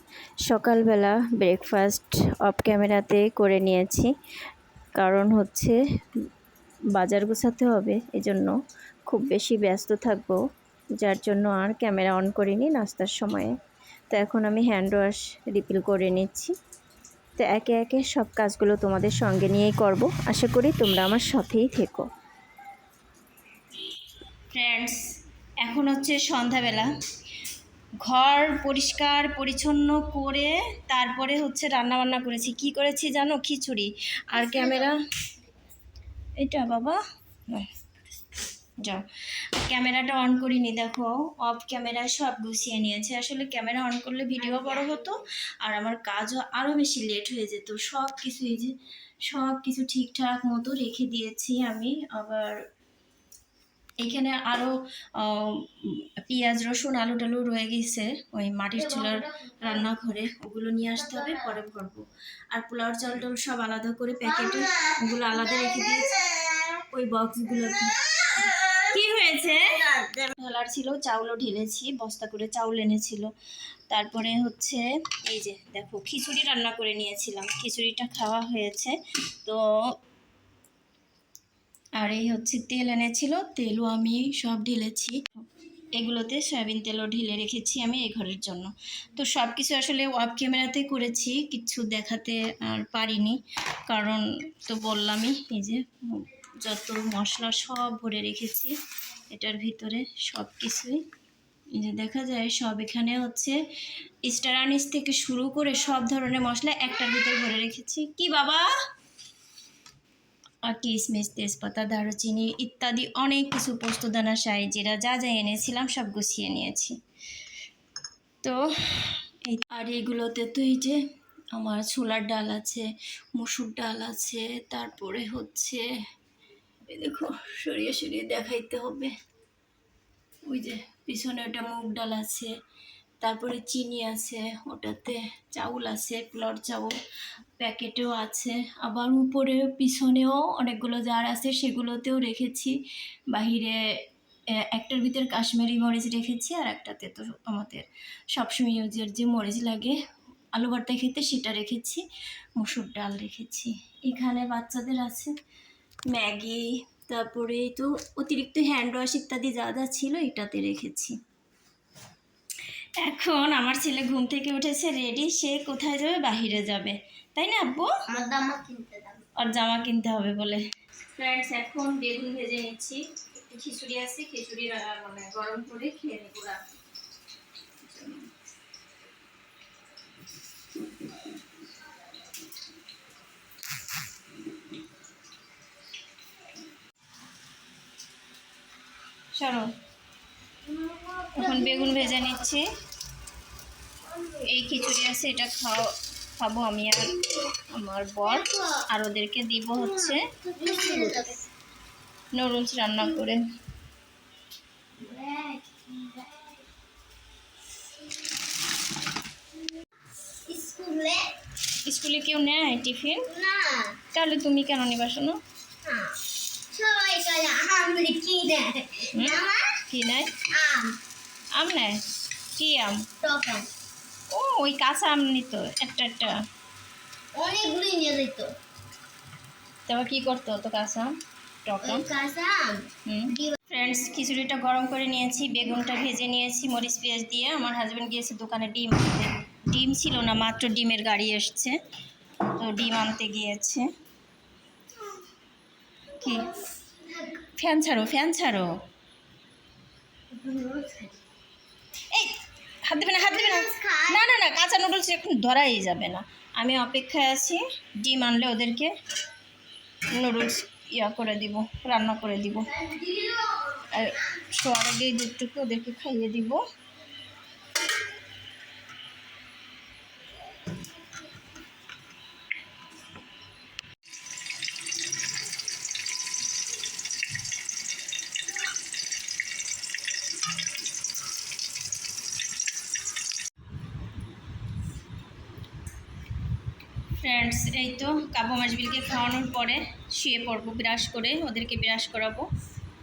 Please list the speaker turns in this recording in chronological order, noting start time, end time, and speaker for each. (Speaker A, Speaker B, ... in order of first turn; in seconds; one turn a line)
Speaker A: 0.5-4.1
Speaker A: 5.0-5.8
Speaker A: 7.0-8.5
Speaker A: 9.1-10.4
Speaker A: 11.0-13.6
Speaker A: 14.1-16.5
Speaker A: 17.4-22.1
Speaker A: 24.5-25.0
Speaker A: 25.6-26.9
Speaker A: 28.0-35.0
Speaker B: 34.3-35.0
Speaker A: 36.4-37.7
Speaker A: 38.8-48.8
Speaker B: 44.4-45.1
Speaker A: 49.3-52.6
Speaker A: 54.0-66.3
Speaker B: 58.8-59.7
Speaker A: 66.9-73.3
Speaker B: 69.8-70.3
Speaker A: 73.9-79.6
Speaker A: 82.0-85.3
Speaker A: 85.9-98.7
Speaker A: 99.3-101.0
Speaker A: 101.7-103.6
Speaker A: 104.2-108.7
Speaker A: 110.7-117.0
Speaker A: 118.4-121.0
Speaker A: 121.5-125.8
Speaker A: 126.9-129.1
Speaker A: 130.5-132.5
Speaker A: 133.2-136.9
Speaker A: 137.6-142.8
Speaker A: 143.3-143.8
Speaker A: 144.5-150.0
Speaker A: 150.5-152.0
Speaker A: 152.6-155.3
Speaker A: 156.1-161.2
Speaker A: 163.0-167.9
Speaker B: 168.1-169.3
Speaker A: 169.4-176.6
Speaker A: 177.8-178.3
Speaker A: 189.3-189.7
Speaker B: 190.7-192.3
Speaker A: 191.4-192.7
Speaker B: 194.1-194.5
Speaker A: 194.5-195.9
Speaker A: 196.4-201.4
Speaker B: 198.2-198.8
Speaker B: 199.8-201.4
Speaker A: 202.3-203.4
Speaker B: 205.0-206.6
Speaker B: 210.5-211.3
Speaker A: 211.9-213.3
Speaker B: 213.3-214.0
Speaker A: 214.1-215.4
Speaker B: 215.8-216.2
Speaker B: 216.7-219.8
Speaker A: 219.1-220.3
Speaker B: 220.5-221.0
Speaker A: 221.6-222.0
Speaker A: 222.6-223.0
Speaker B: 223.2-223.7
Speaker A: 224.3-226.4
Speaker B: 227.3-228.5
Speaker A: 229.9-231.1
Speaker A: 231.7-232.1
Speaker B: 231.8-233.6
Speaker A: 233.1-241.8
Speaker A: 242.6-243.9
Speaker A: 246.2-246.5
Speaker B: 246.3-247.4
Speaker A: 247.6-248.7
Speaker B: 250.3-251.2
Speaker A: 252.1-258.9
Speaker B: 253.3-254.3
Speaker A: 260.1-262.7
Speaker B: 262.7-264.2
Speaker A: 263.9-266.6
Speaker A: 287.2-292.5